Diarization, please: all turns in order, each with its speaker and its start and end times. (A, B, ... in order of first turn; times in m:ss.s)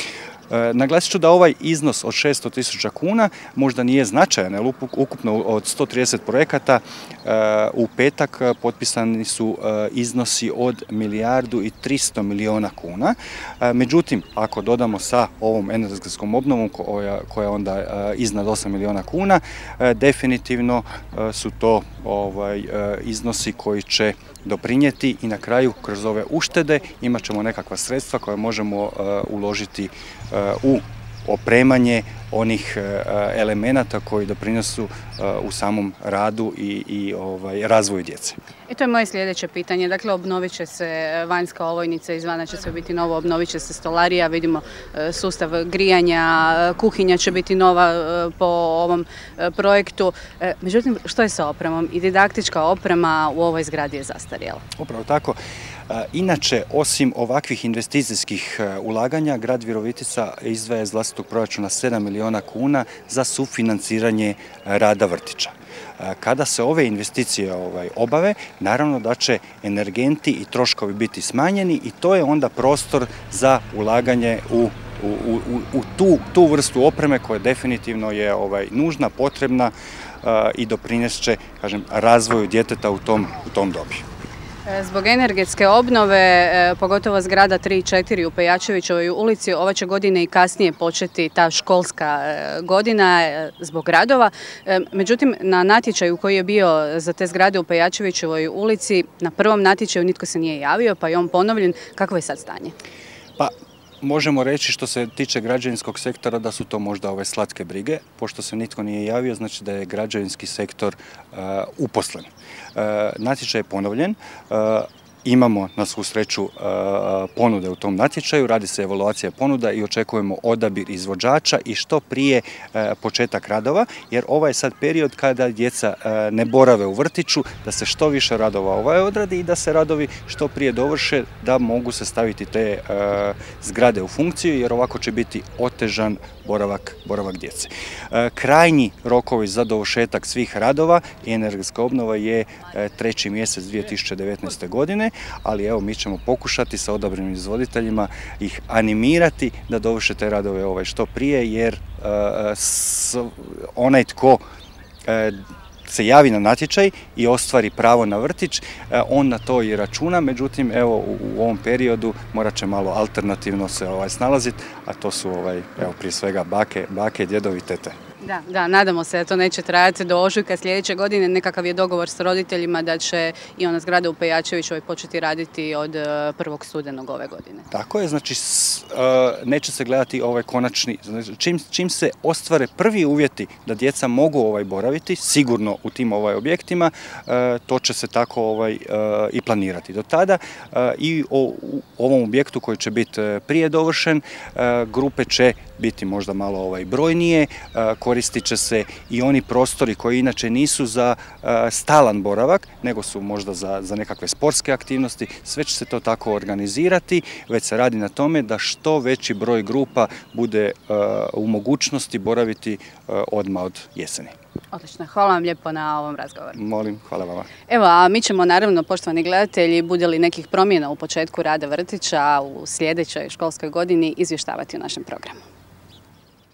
0:00.5-0:38.4 A
0:38.7-0:54.6 B
0:54.8-0:55.4 A
0:55.9-1:19.7 A
1:20.2-1:24.0 A
1:24.7-1:42.7 B
1:44.0-2:34.4 A
2:35.1-2:35.4 A
2:35.9-2:48.0 A
2:48.2-2:57.6 B
2:57.7-3:34.3 A
3:34.7-3:36.6 B
3:36.5-3:37.5 A
3:37.7-3:45.4 B